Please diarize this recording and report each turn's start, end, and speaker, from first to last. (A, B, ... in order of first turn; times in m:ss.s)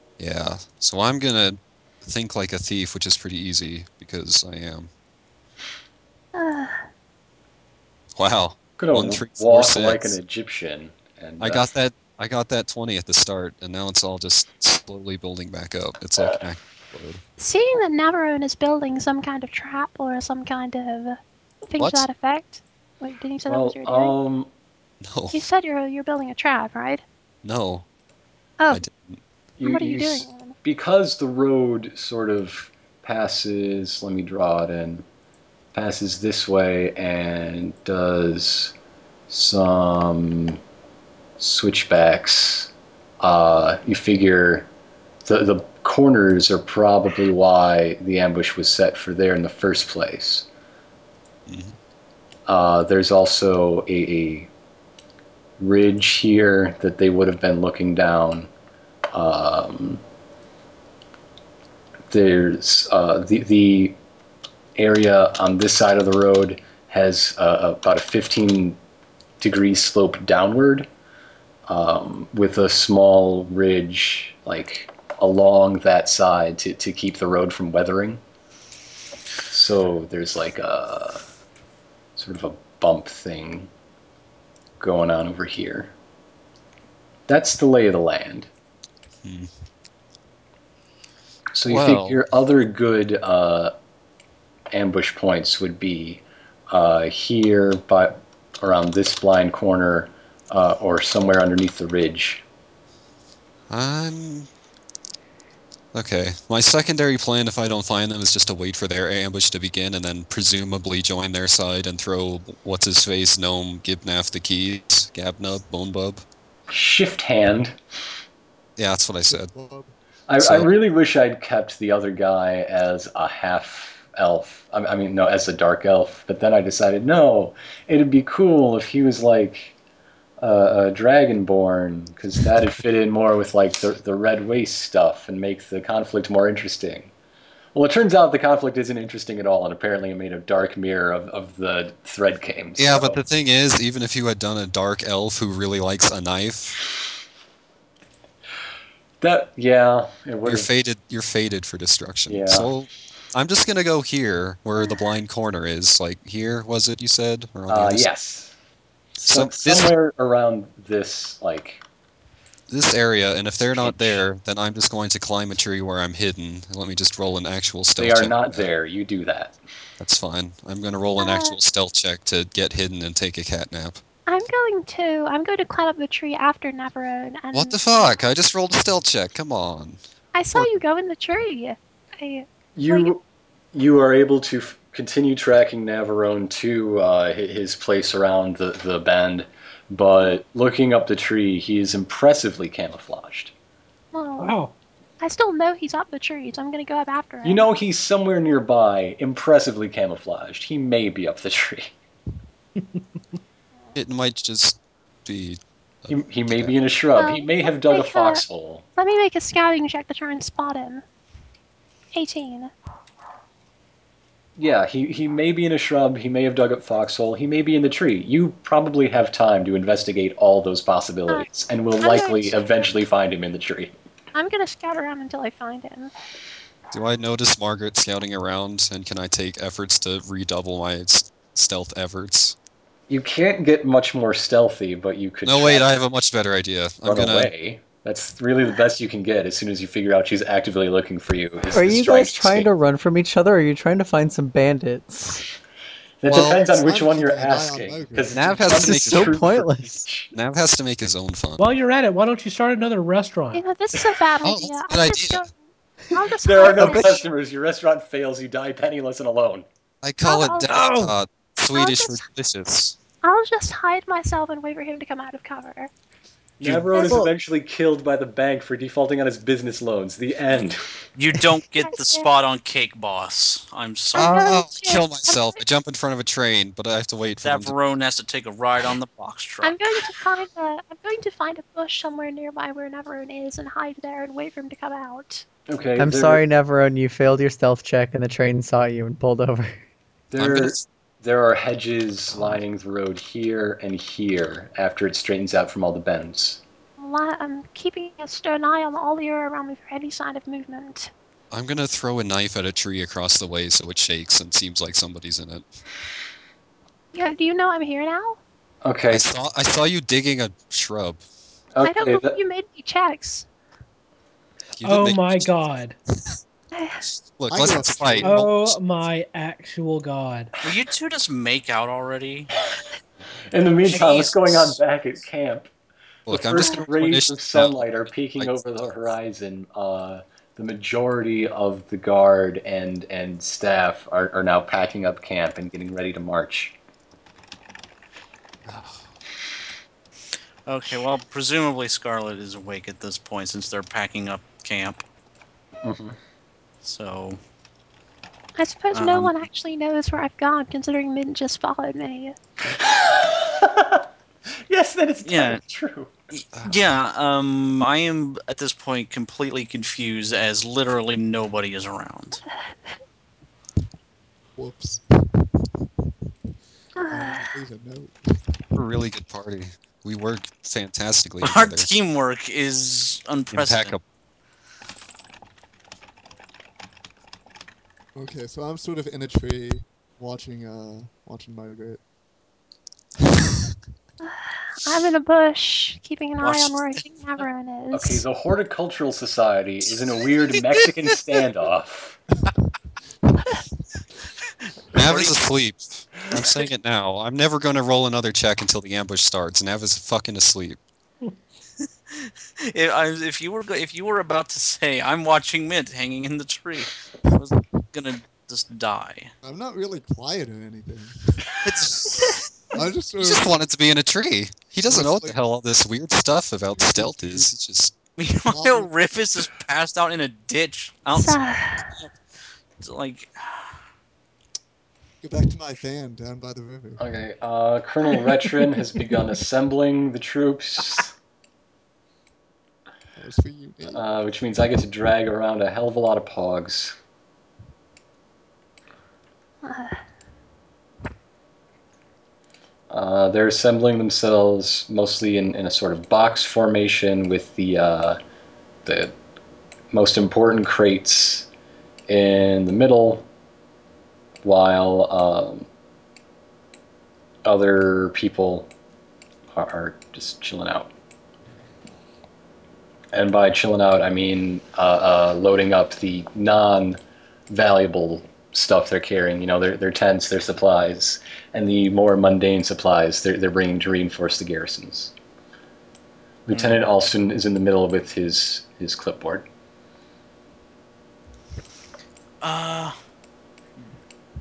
0:00.2-0:04.9 A
0:06.4-0:06.8 B
0:08.2-0:10.2 A
0:08.8-0:11.7 C
0:11.4-0:17.2 A
0:17.4-0:24.2 B
0:21.8-0:22.1 A
0:23.5-0:24.5 C
0:25.0-0:25.4 A
0:25.3-0:27.0 B
0:27.4-0:27.9 A
0:28.6-0:28.8 B
0:28.7-0:29.2 A
0:29.6-0:35.0 C
0:29.6-0:30.6 B
0:35.7-0:38.7 C
0:39.3-0:40.6 C
0:41.4-0:44.7 C
0:45.3-0:50.5 C
0:51.5-0:51.8 A
0:52.5-0:54.5 C
0:55.6-0:58.5 C
0:59.1-1:00.0 C
1:02.1-1:04.0 C
1:04.8-1:08.8 C
1:09.4-1:10.9 C
1:11.7-1:18.2 C
1:19.5-1:21.2 C
1:22.2-1:23.7 C
1:24.8-1:25.9 C
1:27.3-1:28.5 C
1:29.2-1:29.5 A
1:31.5-1:33.7 C
1:31.7-1:32.2 A
1:34.7-1:42.4 C
1:43.7-1:44.5 A
1:45.9-1:56.2 A
1:56.7-1:57.8 C
1:58.8-1:59.5 A
1:59.3-1:59.9 D
2:00.3-2:09.8 C
2:00.4-2:00.7 A
2:10.4-2:17.1 C
2:17.8-2:23.2 C
2:22.8-2:26.8 A
2:29.2-2:30.7 C
2:30.4-2:38.1 A
2:32.3-2:32.7 C
2:34.8-2:35.0 B
2:37.7-2:38.5 C
2:39.2-2:40.0 A
2:39.2-2:41.8 C
2:42.7-2:48.7 A
2:43.8-2:44.2 C
2:48.0-2:49.6 C
2:50.0-2:54.0 A
2:51.2-2:51.6 B
2:54.3-2:58.1 B
2:57.5-3:00.0 A
3:00.3-3:03.1 B
3:02.8-3:03.2 C
3:03.7-3:13.5 C
3:14.1-3:14.5 B
3:14.4-3:14.7 E
3:15.2-3:17.7 B
3:17.4-3:21.9 C
3:24.0-3:26.7 A
3:26.1-3:28.8 C
3:27.2-3:28.4 B
3:29.0-3:31.0 B
3:32.1-3:32.7 B
3:34.6-3:43.9 C
3:42.0-3:42.7 B
3:44.3-3:46.1 B
3:46.9-3:52.6 A
3:53.1-3:55.9 C
3:55.4-3:57.5 A
3:57.0-4:02.7 C
4:01.7-4:05.4 F
4:06.2-4:10.3 C
4:06.3-4:06.6 A
4:06.7-4:08.9 D
4:08.3-4:09.5 A
4:08.7-4:10.0 F
4:10.3-4:11.7 A
4:11.6-4:13.6 E
4:13.5-4:15.5 B
4:14.4-4:15.5 A
4:16.1-4:17.2 B
4:16.4-4:19.7 C
4:20.0-4:23.0 A
4:20.2-4:20.8 B
4:20.7-4:21.1 E
4:21.7-4:22.2 B
4:23.2-4:25.9 B
4:26.6-4:30.8 C
4:26.6-4:27.1 A
4:26.9-4:27.2 B
4:31.2-4:34.4 G
4:31.8-4:32.3 B
4:34.1-4:35.6 B
4:34.2-4:37.8 A
4:37.4-4:39.8 G
4:39.6-4:45.5 B
4:45.7-4:46.4 C
4:46.0-4:49.8 F
4:50.3-4:56.6 C
4:50.4-4:50.9 A
4:52.3-4:52.6 A
4:57.0-5:01.1 B
5:01.5-5:05.7 A
5:07.1-5:08.4 B
5:08.8-5:09.3 C
5:09.1-5:11.2 A
5:11.8-5:12.3 C
5:11.8-5:13.5 B
5:14.8-5:15.6 A
5:14.8-5:16.0 E
5:16.7-5:17.0 B
5:17.0-5:18.8 A
5:17.5-5:18.4 D
5:18.2-5:20.5 E
5:20.6-5:22.5 G
5:23.5-5:25.7 C
5:23.9-5:24.8 G
5:26.3-5:28.6 A
5:26.3-5:36.8 C
5:38.7-5:39.0 A
5:40.7-5:45.0 G
5:45.8-5:46.2 C
5:46.8-5:47.4 G
5:48.6-5:52.4 B
5:48.9-5:49.4 G
5:52.7-5:54.0 C
5:54.7-5:56.1 C
5:55.2-5:55.6 G
5:56.3-6:02.4 G
6:04.6-6:05.7 D
6:07.0-6:07.4 B
6:07.1-6:08.6 D
6:08.7-6:11.9 A
6:11.4-6:14.0 G
6:13.5-6:14.0 A
6:18.2-6:22.0 D
6:24.2-6:28.2 B
6:26.4-6:26.8 G
6:27.9-6:32.2 C
6:34.9-6:40.8 A
6:35.0-6:35.4 G
6:42.1-6:49.3 G
6:49.4-6:51.5 D
6:51.6-6:52.4 A
6:52.7-6:53.5 D
6:53.2-6:57.9 A
6:54.9-6:55.4 D
6:56.8-6:57.5 D
6:58.2-7:02.1 G
6:58.5-6:58.9 D
7:01.1-7:01.9 B
7:02.8-7:03.8 G
7:05.2-7:07.0 D
7:07.0-7:11.1 C
7:13.2-7:14.0 D
7:13.9-7:17.0 C
7:19.6-7:20.0 B
7:22.9-7:28.2 C
7:28.9-7:29.1 C
7:29.9-7:31.5 C
7:32.1-7:33.3 C
7:34.4-7:35.7 C
7:37.4-7:38.7 C
7:39.5-7:40.9 C
7:43.1-7:47.0 C
7:47.5-7:55.1 C
7:56.5-7:59.5 C
7:56.5-7:56.8 G
8:02.4-8:03.0 G